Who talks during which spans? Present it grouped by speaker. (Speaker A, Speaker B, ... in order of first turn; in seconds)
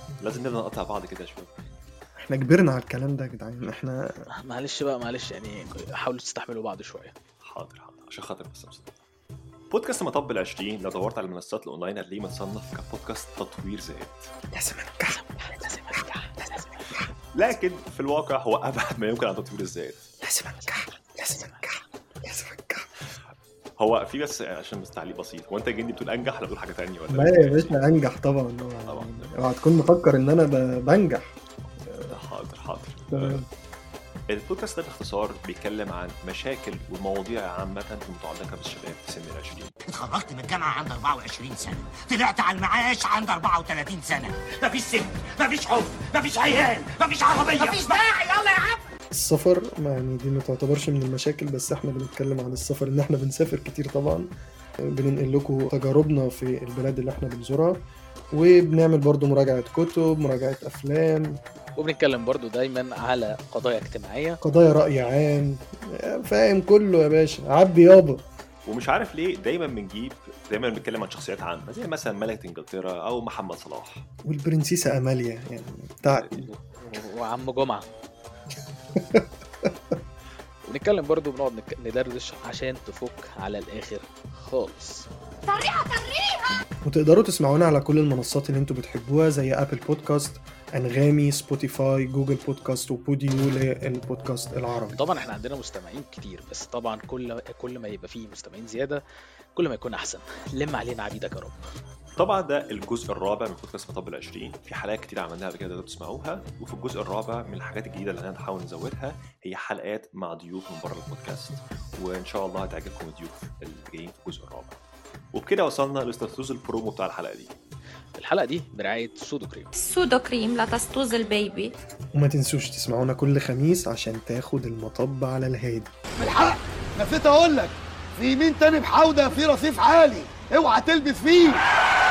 Speaker A: 0.2-1.5, 7.5-8.9, 9.7-14.3, 17.3-20.0, 23.8-27.8, 28.9-29.3, 31.8-33.4, 34.3-39.7, 68.7-74.0, 76.1-76.6, 102.2-114.8, 115.3-117.5
Speaker B: 2.2-4.0, 14.5-16.1, 20.2-23.0, 27.1-31.3, 33.1-33.5, 49.1-54.3, 54.9-57.8, 58.4-61.4, 64.4-68.2, 74.2-76.5, 79.0-79.2, 86.8-95.0, 122.2-125.9
Speaker C: 4.4-7.1, 15.1-16.8, 21.3-21.7, 61.8-64.4, 76.8-77.9, 80.7-85.1, 94.9-99.0, 99.6-101.6, 118.2-119.7
Speaker D: 39.9-48.8
Speaker E: 85.6-86.2, 119.8-121.8
Speaker F: 126.2-131.6